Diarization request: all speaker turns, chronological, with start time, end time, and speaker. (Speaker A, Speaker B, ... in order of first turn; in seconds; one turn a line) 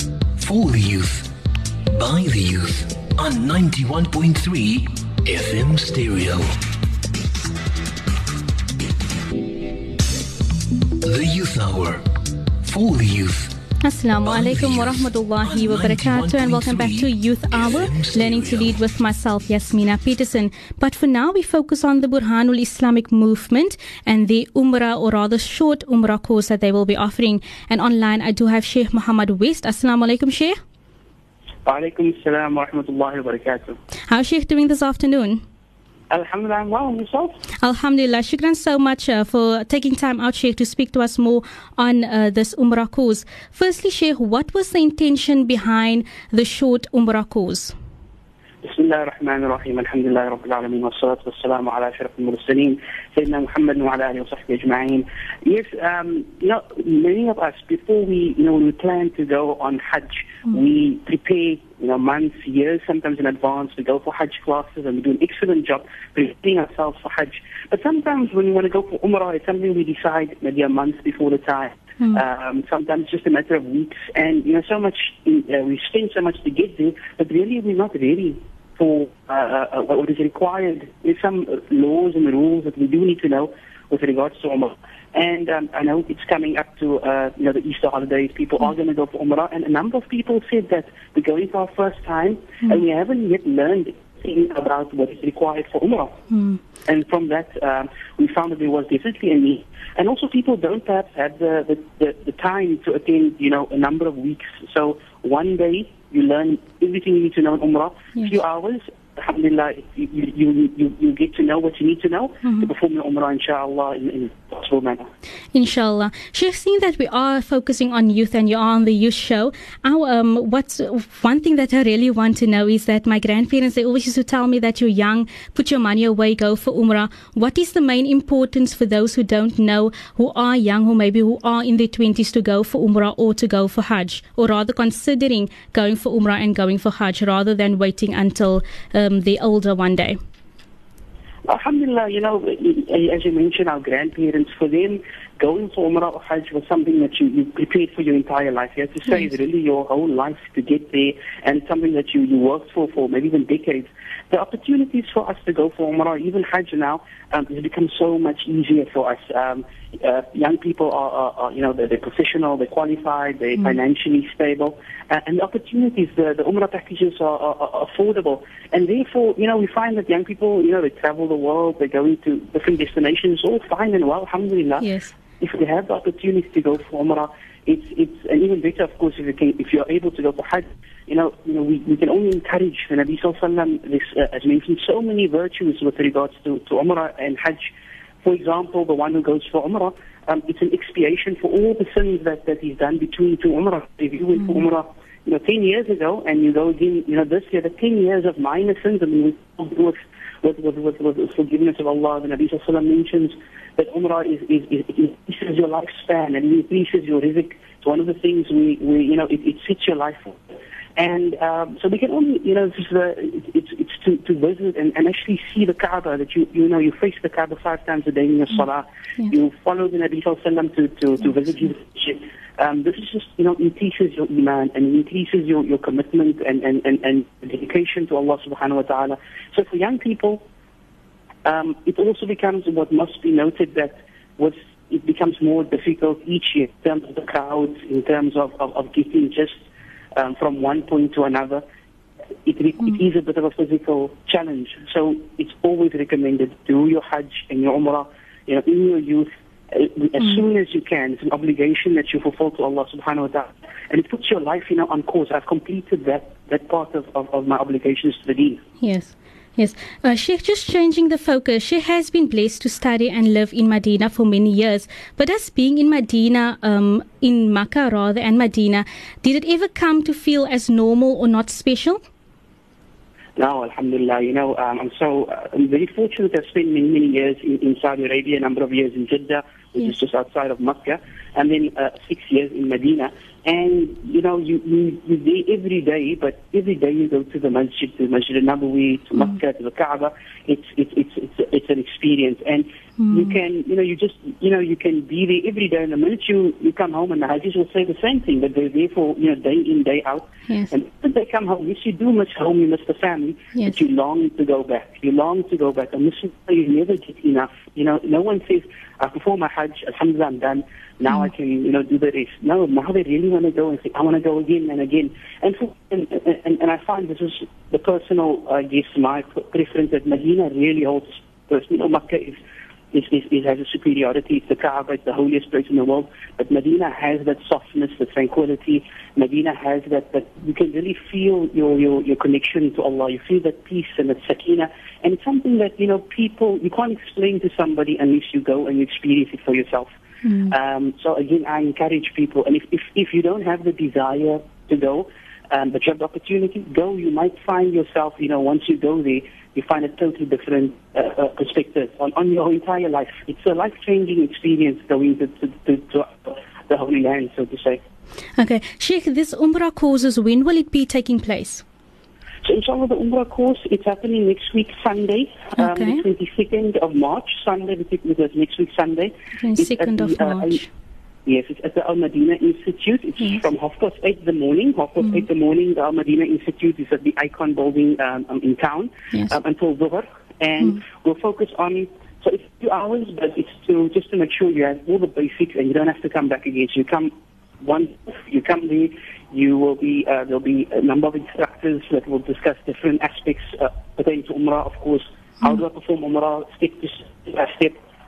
Speaker A: 0.3-1.3
Speaker A: 1.9-6.5
Speaker A: 11.0-12.0
Speaker A: 12.6-13.6
Speaker B: 13.8-30.6
Speaker A: 14.2-18.8
Speaker C: 31.6-33.8
Speaker B: 34.1-35.4
Speaker C: 36.1-37.4
Speaker B: 37.6-47.7
Speaker C: 48.6-96.2
Speaker B: 96.3-96.6
Speaker C: 96.8-115.1
Speaker B: 112.4-112.7
Speaker B: 115.5-140.2
Speaker C: 141.4-230.4
Speaker B: 174.8-175.1
Speaker C: 231.4-239.6
Speaker C: 240.1-241.6
Speaker C: 242.4-258.6
Speaker B: 258.8-272.0
Speaker C: 273.4-322.4
Speaker B: 293.0-293.3
Speaker C: 322.9-339.9
Speaker B: 340.2-340.5
Speaker C: 340.5-357.8
Speaker B: 358.4-361.6
Speaker C: 362.4-370.6
Speaker B: 365.6-366.0
Speaker B: 369.4-370.7
Speaker C: 371.2-397.8
Speaker B: 373.2-373.5